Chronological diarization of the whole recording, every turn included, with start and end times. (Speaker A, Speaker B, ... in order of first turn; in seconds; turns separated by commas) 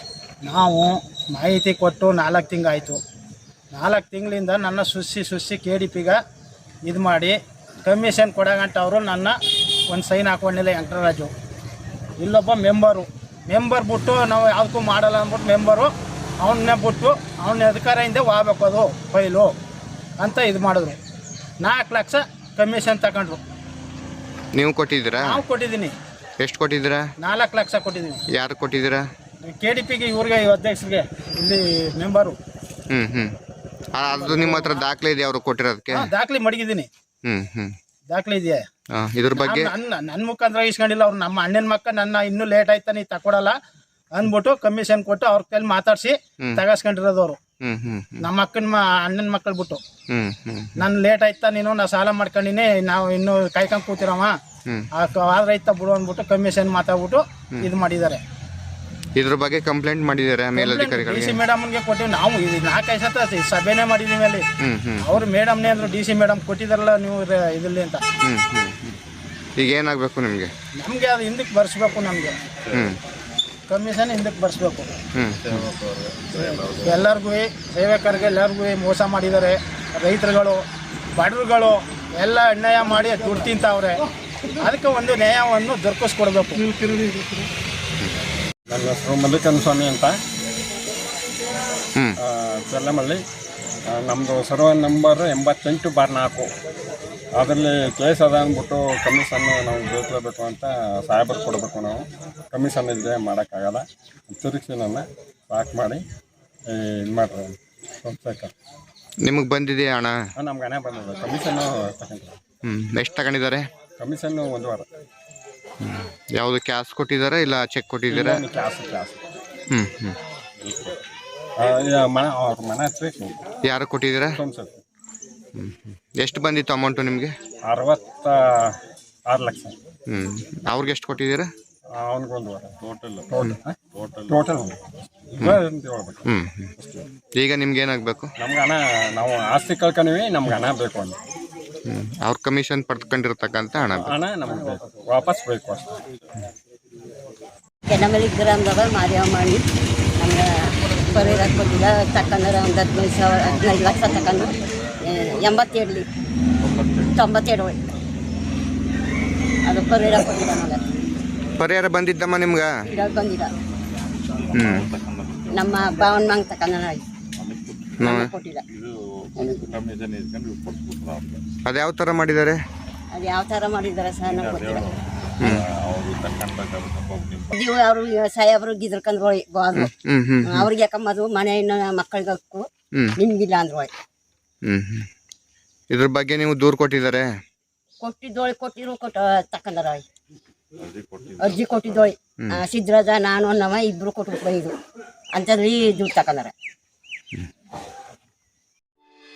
Speaker A: 0.4-3.0, Speaker A: 3.7-6.2, Speaker A: 6.9-9.4, Speaker A: 9.9-11.3, Speaker A: 12.2-15.9, Speaker A: 16.4-19.5, Speaker A: 20.2-21.0, Speaker A: 21.6-23.4, Speaker B: 24.6-25.4, Speaker A: 25.2-25.9, Speaker B: 26.4-27.1, Speaker A: 27.2-28.2, Speaker B: 28.3-29.1, Speaker A: 29.4-32.4, Speaker B: 32.9-33.3, Speaker B: 34.0-36.1, Speaker A: 34.1-34.8, Speaker A: 36.0-36.9, Speaker B: 37.2-37.7, Speaker A: 38.1-38.6, Speaker B: 39.0-39.7, Speaker A: 39.4-43.6, Speaker A: 44.1-47.4, Speaker B: 47.6-48.3, Speaker A: 48.2-49.8, Speaker B: 50.1-50.8, Speaker A: 50.8-54.4, Speaker A: 54.9-58.2, Speaker B: 59.2-61.4, Speaker A: 60.6-64.5, Speaker B: 64.6-65.2, Speaker A: 65.0-68.0, Speaker B: 68.2-69.0, Speaker B: 69.6-70.5, Speaker A: 70.8-72.4, Speaker B: 72.7-73.0, Speaker A: 73.7-74.9, Speaker B: 75.2-75.7, Speaker C: 75.4-77.1, Speaker A: 76.8-80.6, Speaker A: 81.2-84.0, Speaker A: 84.6-86.7, Speaker D: 88.7-90.1, Speaker D: 92.2-93.2, Speaker D: 93.9-96.5, Speaker D: 97.4-106.0, Speaker D: 106.7-108.5, Speaker B: 109.2-110.2, Speaker D: 110.4-112.4, Speaker B: 112.7-113.7, Speaker D: 114.0-114.8, Speaker B: 115.8-118.4, Speaker D: 118.1-119.3, Speaker B: 119.7-120.2, Speaker C: 120.6-121.0, Speaker D: 121.6-123.3, Speaker B: 123.7-124.4, Speaker D: 124.4-124.8, Speaker B: 125.5-127.3, Speaker D: 127.7-128.7, Speaker D: 129.3-129.8, Speaker B: 130.1-131.5, Speaker D: 132.0-132.7, Speaker C: 132.8-133.3, Speaker D: 133.3-133.8, Speaker C: 133.9-134.7, Speaker D: 134.3-134.8, Speaker D: 135.4-136.2, Speaker B: 136.2-136.7, Speaker D: 136.8-137.1, Speaker B: 137.4-138.3, Speaker D: 138.4-141.2, Speaker B: 141.9-144.1, Speaker D: 144.0-146.0, Speaker E: 147.9-149.6, Speaker E: 150.2-150.5, Speaker E: 151.1-154.6, Speaker E: 155.1-156.1, Speaker C: 156.7-157.1, Speaker E: 157.1-157.8, Speaker E: 159.7-160.8, Speaker B: 161.6-162.8, Speaker E: 162.9-163.5, Speaker C: 164.4-166.3, Speaker B: 164.6-164.9, Speaker E: 165.5-167.0, Speaker C: 167.4-168.0, Speaker B: 168.0-168.3, Speaker E: 168.0-168.6, Speaker C: 168.7-171.4, Speaker E: 169.4-169.7, Speaker B: 171.7-172.6, Speaker E: 173.2-175.0, Speaker C: 174.2-177.6, Speaker E: 177.5-179.9, Speaker B: 179.8-180.7, Speaker E: 180.5-182.7, Speaker E: 183.2-183.9, Speaker B: 184.7-185.1, Speaker B: 185.9-187.3, Speaker E: 188.0-190.0, Speaker C: 190.8-192.1, Speaker E: 191.4-194.7, Speaker E: 195.3-196.5